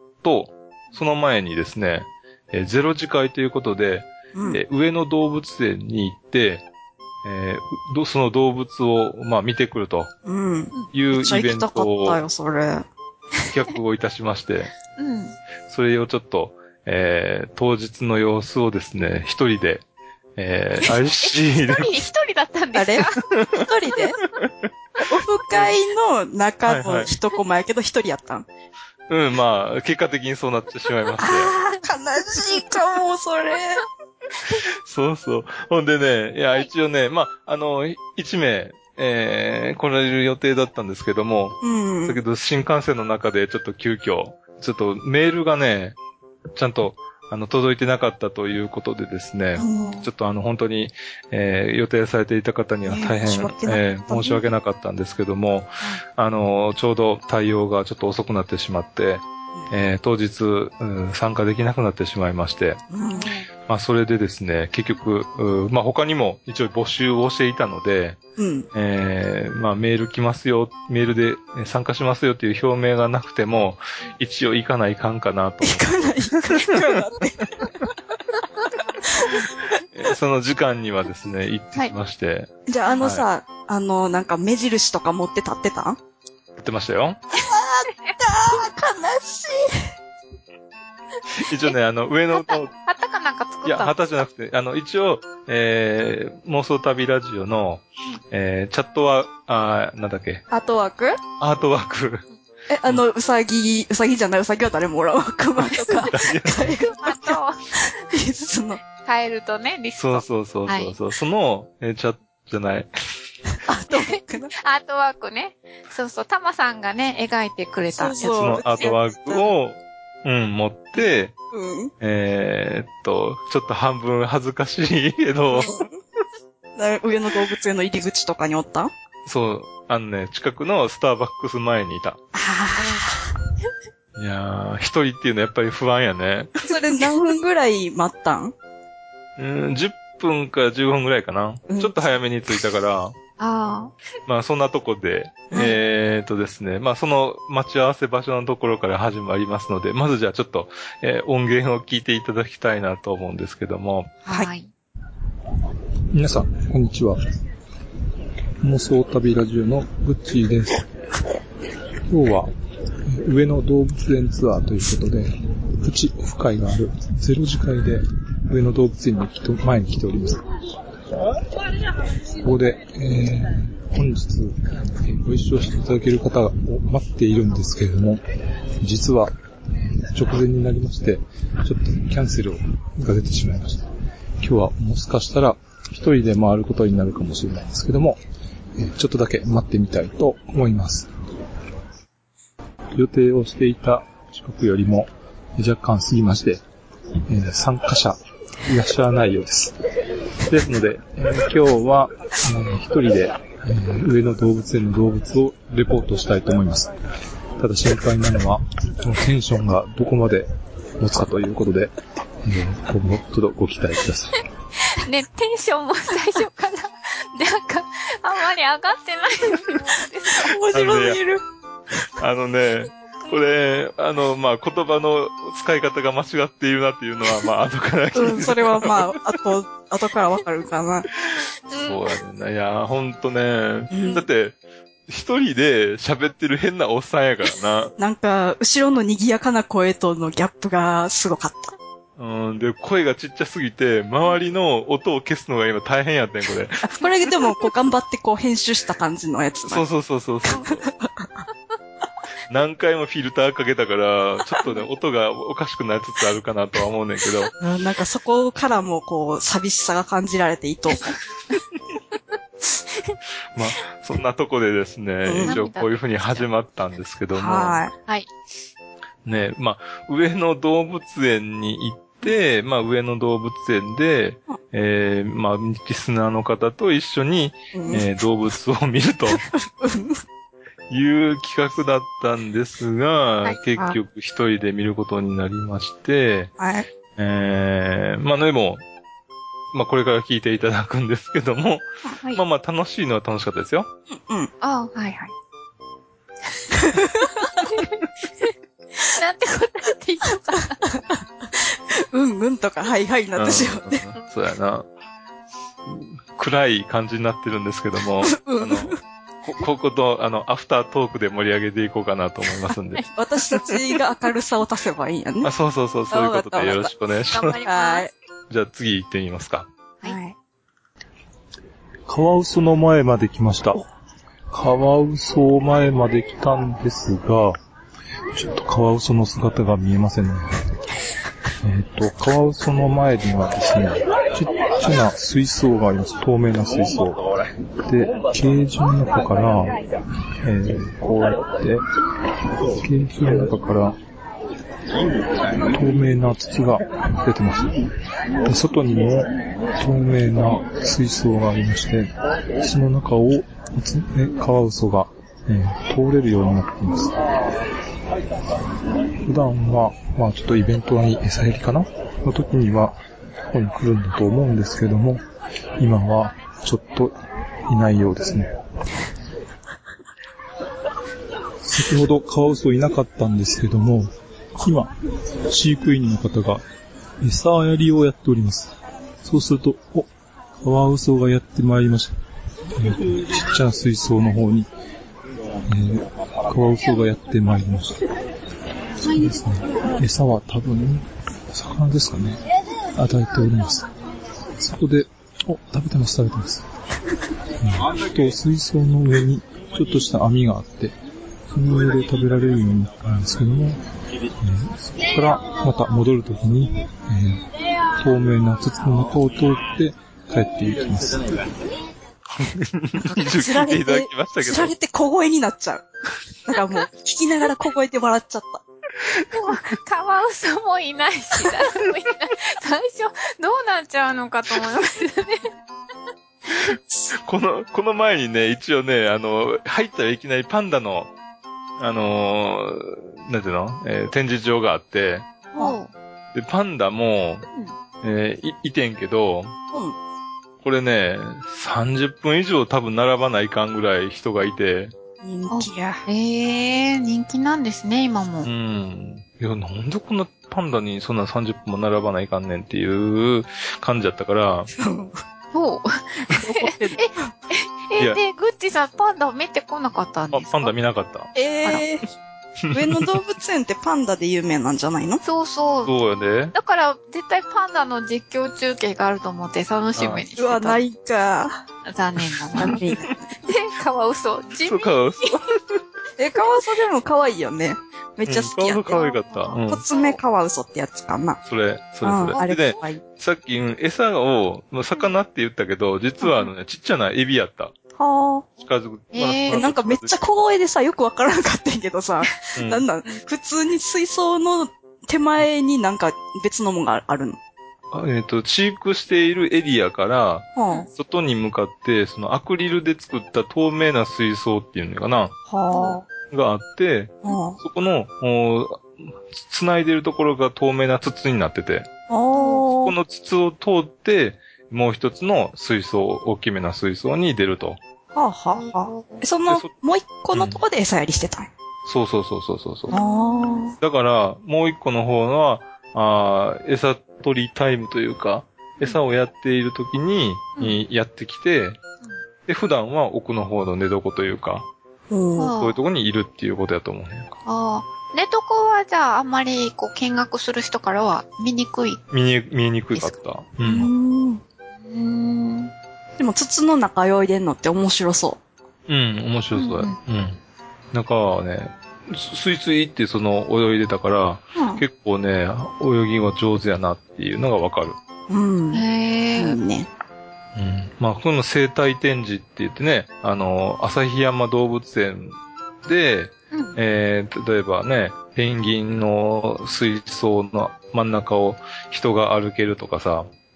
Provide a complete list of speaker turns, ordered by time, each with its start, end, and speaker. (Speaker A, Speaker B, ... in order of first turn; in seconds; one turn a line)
Speaker A: 0.2-6.7
Speaker B: 4.3-4.6
Speaker A: 7.2-10.1
Speaker B: 10.2-12.9
Speaker A: 10.9-12.2
Speaker A: 13.5-14.7
Speaker C: 15.0-15.4
Speaker A: 15.7-19.8
Speaker A: 20.4-21.9
Speaker C: 21.2-23.2
Speaker B: 22.8-24.2
Speaker A: 24.4-24.7
Speaker B: 25.0-28.5
Speaker A: 26.7-27.1
Speaker A: 29.1-31.5
Speaker B: 31.2-33.8
Speaker A: 34.9-46.0
Speaker B: 41.6-42.2
Speaker A: 46.5-62.8
Speaker B: 49.6-50.0
Speaker B: 52.9-54.4
Speaker B: 62.9-63.3
Speaker C: 63.2-63.5
Speaker A: 63.7-68.2
Speaker B: 68.4-68.7
Speaker A: 68.7-76.2
Speaker B: 75.6-77.7
Speaker B: 79.1-79.5
Speaker A: 80.0-82.5
Speaker B: 82.7-86.0
Speaker A: 86.6-87.2
Speaker B: 87.4-89.9
Speaker A: 91.4-92.7
Speaker C: 92.3-94.2
Speaker A: 93.7-100.4
Speaker B: 100.5-101.2
Speaker A: 101.4-102.2
Speaker B: 102.7-108.8
Speaker C: 105.8-106.1
Speaker A: 106.1-106.7
Speaker C: 106.7-107.6
Speaker C: 109.0-111.0
Speaker A: 110.0-112.9
Speaker B: 113.7-114.5
Speaker C: 113.9-118.5
Speaker B: 117.9-119.5
Speaker A: 118.2-121.3
Speaker B: 121.5-121.9
Speaker A: 122.0-125.8
Speaker B: 125.5-125.9
Speaker B: 126.8-128.9
Speaker A: 129.3-132.2
Speaker B: 132.3-133.2
Speaker A: 134.2-136.7
Speaker B: 136.6-138.5
Speaker A: 139.4-143.1
Speaker B: 141.7-141.9
Speaker C: 143.4-143.9
Speaker A: 144.3-154.2
Speaker C: 154.2-154.7
Speaker D: 156.1-157.2
Speaker D: 158.6-160.9
Speaker D: 162.1-162.5
Speaker D: 163.1-170.4
Speaker D: 172.4-178.2
Speaker D: 178.8-179.3
Speaker D: 180.1-183.9
Speaker D: 184.4-188.2
Speaker D: 188.8-191.1
Speaker D: 192.9-196.6
Speaker D: 197.3-199.8
Speaker D: 200.5-206.9
Speaker D: 207.6-210.5
Speaker D: 211.0-214.4
Speaker C: 214.9-220.5
Speaker B: 220.4-221.4
Speaker A: 220.7-221.2
Speaker A: 222.2-229.2
Speaker B: 228.2-231.1
Speaker C: 231.7-231.9
Speaker A: 231.8-234.6
Speaker B: 233.9-234.2
Speaker A: 235.1-237.9
Speaker B: 238.0-241.7
Speaker A: 242.2-247.0
Speaker B: 246.9-249.8
Speaker A: 249.7-250.9
Speaker B: 250.5-251.3
Speaker A: 252.5-257.5
Speaker B: 257.6-261.1
Speaker A: 263.6-267.8
Speaker B: 265.3-265.6
Speaker C: 265.4-266.5
Speaker B: 267.3-267.9
Speaker A: 269.3-279.4
Speaker B: 277.7-278.1
Speaker B: 279.3-280.2
Speaker A: 280.9-286.5
Speaker B: 286.6-286.9
Speaker A: 287.2-288.8
Speaker A: 289.7-293.9
Speaker B: 294.1-294.5
Speaker C: 294.6-295.3
Speaker B: 296.8-297.3
Speaker C: 297.6-298.5
Speaker C: 299.1-300.8
Speaker B: 301.1-304.0
Speaker A: 303.4-304.9
Speaker A: 305.9-313.0
Speaker B: 308.2-309.0
Speaker B: 313.2-315.5
Speaker A: 315.4-317.6
Speaker B: 316.1-316.9
Speaker C: 317.3-318.1
Speaker B: 317.7-318.1
Speaker A: 318.5-319.7
Speaker B: 320.0-320.4
Speaker D: 322.1-323.8
Speaker D: 324.5-327.6
Speaker D: 328.3-330.5
Speaker D: 331.6-337.2
Speaker D: 337.9-339.8
Speaker D: 340.4-341.8
Speaker D: 342.7-344.0
Speaker D: 345.6-347.8
Speaker D: 348.4-357.2
Speaker D: 359.2-363.0
Speaker D: 363.5-365.2
Speaker D: 365.8-367.1
Speaker D: 367.7-368.5
Speaker D: 371.6-374.9
Speaker D: 375.4-376.6
Speaker D: 377.2-380.1
Speaker D: 380.6-382.1
Speaker D: 382.8-384.7
Speaker D: 385.7-388.0
Speaker D: 389.1-392.4
Speaker D: 392.9-393.9
Speaker D: 394.6-396.6
Speaker D: 397.6-401.0
Speaker D: 401.5-403.8
Speaker D: 404.4-407.5
Speaker D: 408.0-411.4
Speaker A: 412.3-414.7
Speaker B: 413.1-415.9
Speaker B: 416.5-418.6
Speaker C: 419.3-425.5
Speaker A: 427.3-431.1
Speaker A: 431.8-435.3
Speaker C: 435.6-435.9
Speaker A: 436.3-437.5
Speaker A: 438.0-439.5
Speaker A: 440.6-444.9
Speaker B: 445.2-446.0
Speaker C: 445.5-448.5
Speaker A: 448.4-454.7
Speaker B: 454.8-455.1
Speaker C: 455.5-460.7
Speaker B: 456.4-457.3
Speaker A: 460.3-461.3
Speaker B: 461.4-462.0
Speaker A: 462.7-463.1
Speaker B: 462.7-465.2
Speaker C: 465.2-465.9
Speaker A: 465.9-466.5
Speaker C: 466.5-470.8
Speaker A: 470.0-470.2
Speaker B: 470.4-471.6
Speaker C: 471.9-472.8
Speaker B: 472.5-473.2
Speaker C: 473.4-475.0
Speaker A: 474.6-475.4
Speaker B: 476.2-479.0
Speaker A: 478.3-479.8
Speaker C: 478.9-480.2
Speaker B: 479.7-481.4
Speaker A: 481.5-487.7
Speaker B: 482.0-483.0
Speaker B: 488.0-488.5
Speaker A: 488.6-490.2
Speaker C: 489.1-489.6
Speaker B: 489.5-497.4
Speaker A: 492.6-492.8
Speaker A: 497.9-505.3
Speaker B: 500.6-500.9
Speaker B: 505.5-506.1
Speaker C: 505.7-506.0
Speaker A: 506.3-511.9
Speaker B: 507.2-507.6
Speaker B: 512.1-512.9
Speaker C: 512.3-512.6
Speaker A: 512.8-517.8
Speaker B: 518.1-521.5
Speaker C: 518.5-519.2
Speaker A: 520.3-520.6
Speaker A: 521.9-522.9
Speaker C: 522.9-523.6
Speaker B: 522.9-523.7
Speaker A: 523.8-531.8
Speaker A: 532.5-534.7
Speaker B: 535.1-535.5
Speaker C: 535.4-535.8
Speaker A: 535.6-537.4
Speaker C: 537.5-542.0
Speaker A: 542.1-543.9
Speaker B: 543.6-544.4
Speaker C: 544.8-545.7
Speaker B: 546.2-548.4
Speaker A: 548.9-550.4
Speaker C: 549.5-550.0
Speaker A: 550.9-558.0
Speaker B: 554.6-554.8
Speaker B: 558.3-558.8
Speaker C: 558.7-559.6
Speaker B: 559.4-559.9
Speaker A: 560.6-573.3